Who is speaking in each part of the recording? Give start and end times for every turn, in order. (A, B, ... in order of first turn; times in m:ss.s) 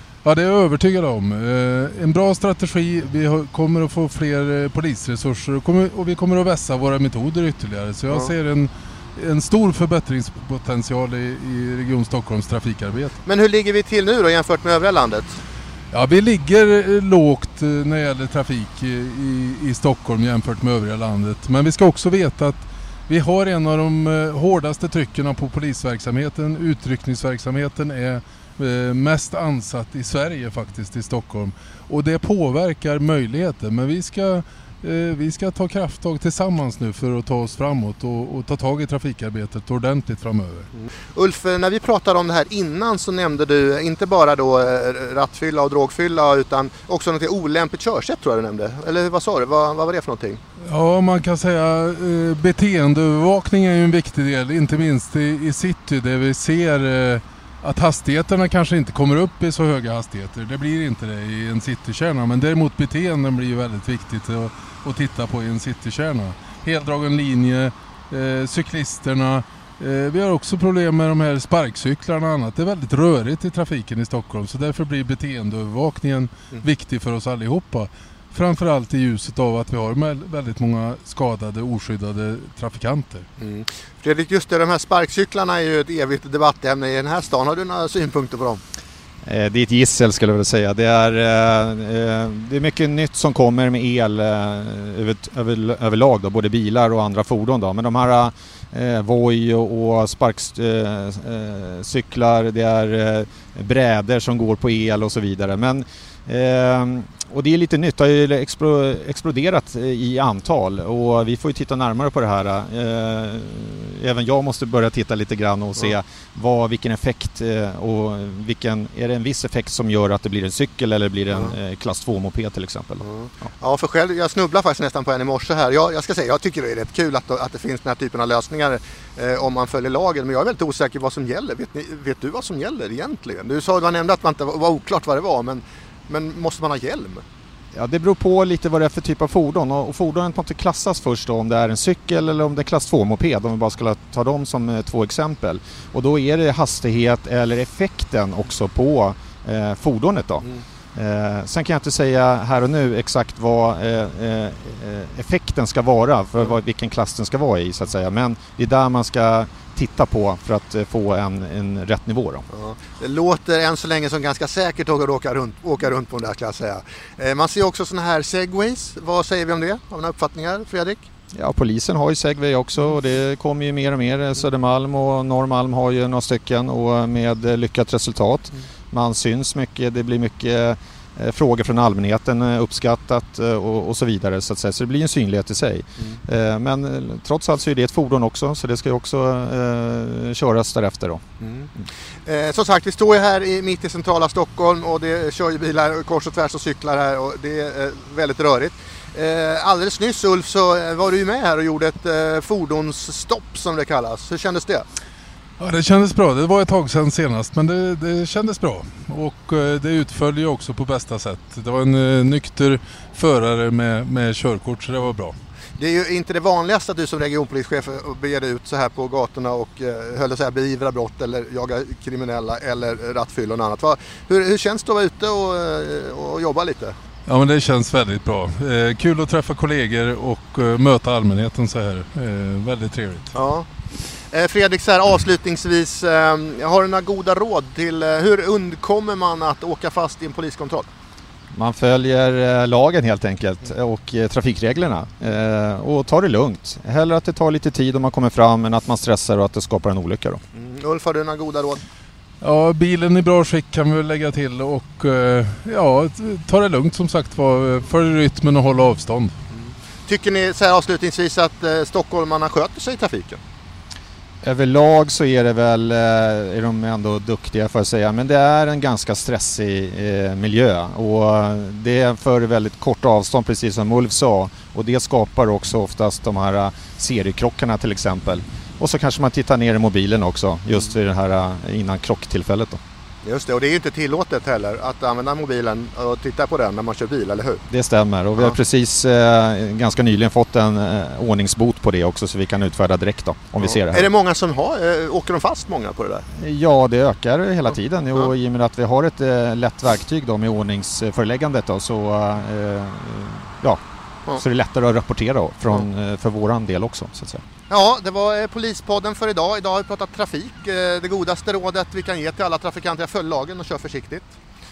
0:00.2-0:13.1 A
0:08.1-0:08.3 B
0:13.2-0:15.4 B
0:15.9-0:40.7 A
0:41.1-0:50.4 B
0:50.7-1:23.2 A
1:23.4-1:28.6 B
1:29.2-2:03.5 C
2:01.3-2:01.5 B
2:03.0-2:17.2 B
2:17.7-2:42.4 C
2:42.5-2:51.0 B
2:51.3-3:11.2 C
3:11.4-3:11.7 B
3:12.2-3:24.8 B
3:25.6-3:35.3 A
3:35.8-3:46.9 B
3:47.2-3:53.3 A
3:53.3-3:53.7 B
3:54.3-4:00.9 B
4:01.5-4:10.4 C
4:10.5-4:11.8 B
4:12.4-4:19.3 A
4:19.5-4:23.4 B
4:24.4-4:42.8 C
4:43.2-4:47.6 B
4:47.7-4:54.1 C
4:53.6-4:56.2 B
4:56.4-5:03.8 C
5:04.3-5:07.4 C
5:07.7-5:14.3 B